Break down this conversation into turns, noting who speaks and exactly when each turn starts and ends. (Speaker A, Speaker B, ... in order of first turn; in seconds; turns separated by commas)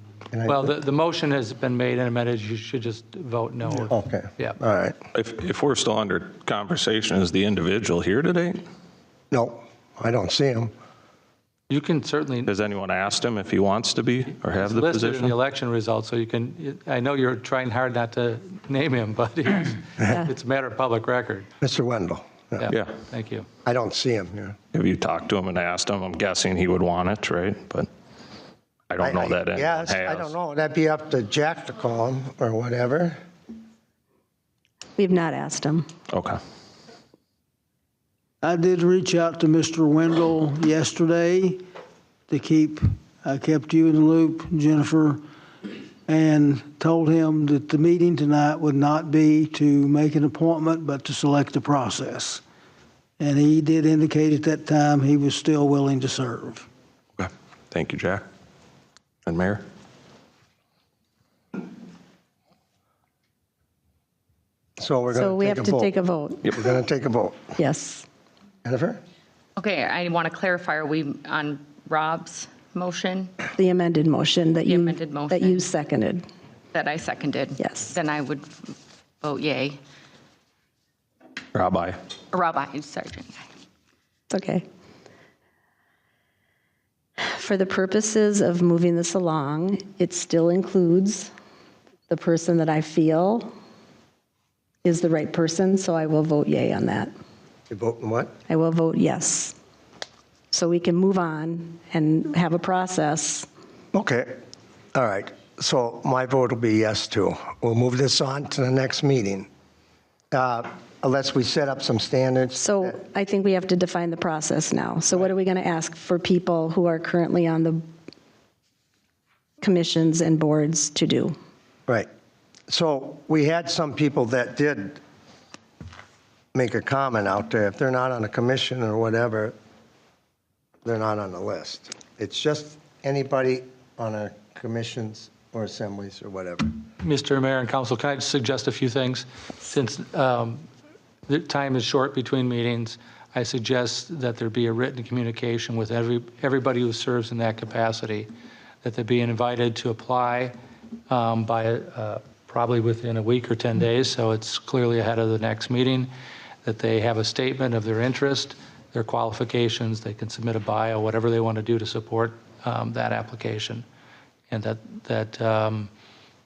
Speaker A: 0.3-0.7, Speaker B: 0.5-4.6, Speaker A: 3.9-5.0, Speaker C: 5.1-8.6, Speaker A: 9.3-10.7, Speaker B: 11.7-12.5, Speaker C: 12.5-15.3, Speaker B: 14.6-21.5, Speaker A: 21.6-22.6, Speaker B: 22.6-23.5, Speaker C: 22.7-22.9, Speaker A: 23.6-24.6, Speaker C: 24.7-27.9, Speaker C: 28.9-30.3, Speaker A: 29.0-33.2, Speaker D: 35.0-35.9, Speaker C: 36.1-36.4, Speaker E: 38.4-41.6, Speaker E: 42.3-45.2, Speaker E: 46.1-52.4, Speaker E: 53.2-56.7, Speaker C: 57.2-58.2, Speaker C: 59.3-59.6, Speaker A: 64.8-65.9, Speaker D: 65.1-66.6, Speaker A: 66.5-67.5, Speaker D: 67.6-68.1, Speaker A: 68.6-69.0, Speaker F: 69.6-73.3, Speaker D: 73.6-76.2, Speaker F: 74.6-75.6, Speaker F: 76.7-79.8, Speaker D: 77.6-77.9, Speaker C: 81.5-82.0, Speaker F: 82.3-83.4, Speaker D: 84.3-84.7, Speaker D: 87.2-91.3, Speaker D: 92.1-93.5, Speaker D: 94.8-97.1, Speaker A: 97.7-98.3, Speaker D: 98.5-99.6, Speaker D: 100.5-103.5, Speaker A: 103.9-104.3, Speaker A: 105.0-109.5, Speaker A: 110.3-112.9, Speaker D: 112.5-117.8, Speaker D: 119.6-121.4, Speaker A: 122.7-125.0, Speaker A: 126.5-129.6, Speaker A: 130.8-136.8, Speaker B: 137.0-140.7, Speaker B: 141.3-148.3, Speaker B: 148.8-150.5, Speaker B: 151.1-156.1, Speaker B: 156.6-163.8, Speaker B: 164.5-165.9